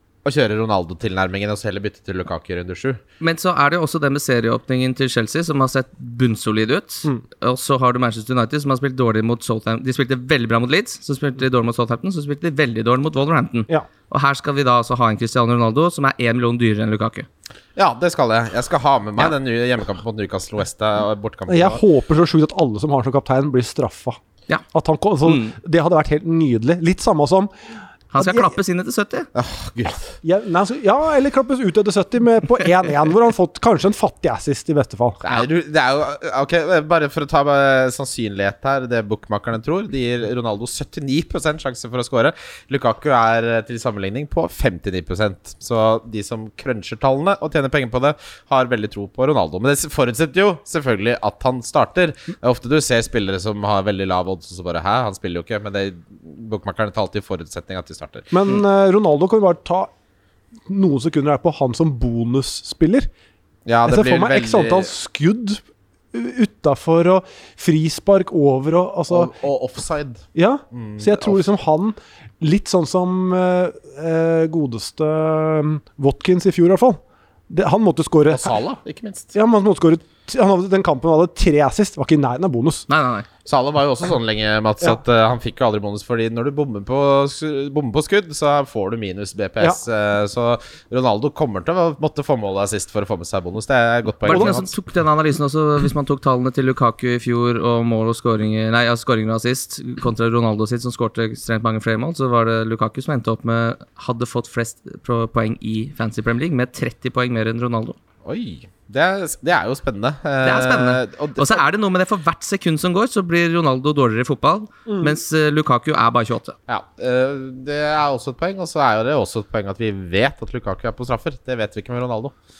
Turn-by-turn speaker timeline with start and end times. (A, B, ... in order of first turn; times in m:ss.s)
0:00.2-0:03.0 A
0:03.2-0:17.3 B
0:17.8-0:21.8 A
0:21.5-0:24.2 C
0:24.7-0:27.5 C
0:25.2-0:25.5 B
0:28.1-0:29.3 B
0:28.2-0:28.5 C
0:29.3-0:30.1 A
0:30.2-0:35.2 C
0:35.2-0:58.3 A
0:58.3-0:59.9 C
1:00.7-1:03.1 C
1:03.6-1:04.9 A
1:03.8-1:09.3 C
1:09.1-1:11.4 A
1:10.3-1:18.6 C
1:18.3-1:19.3 A
1:19.3-1:22.9 C
1:22.9-1:23.3 B
1:23.4-1:34.7 A
1:34.3-1:48.0 B
1:34.3-1:34.6 C
1:48.2-1:51.6 A
1:50.4-1:56.6 B
1:54.9-1:55.1 C
1:56.7-2:02.3 A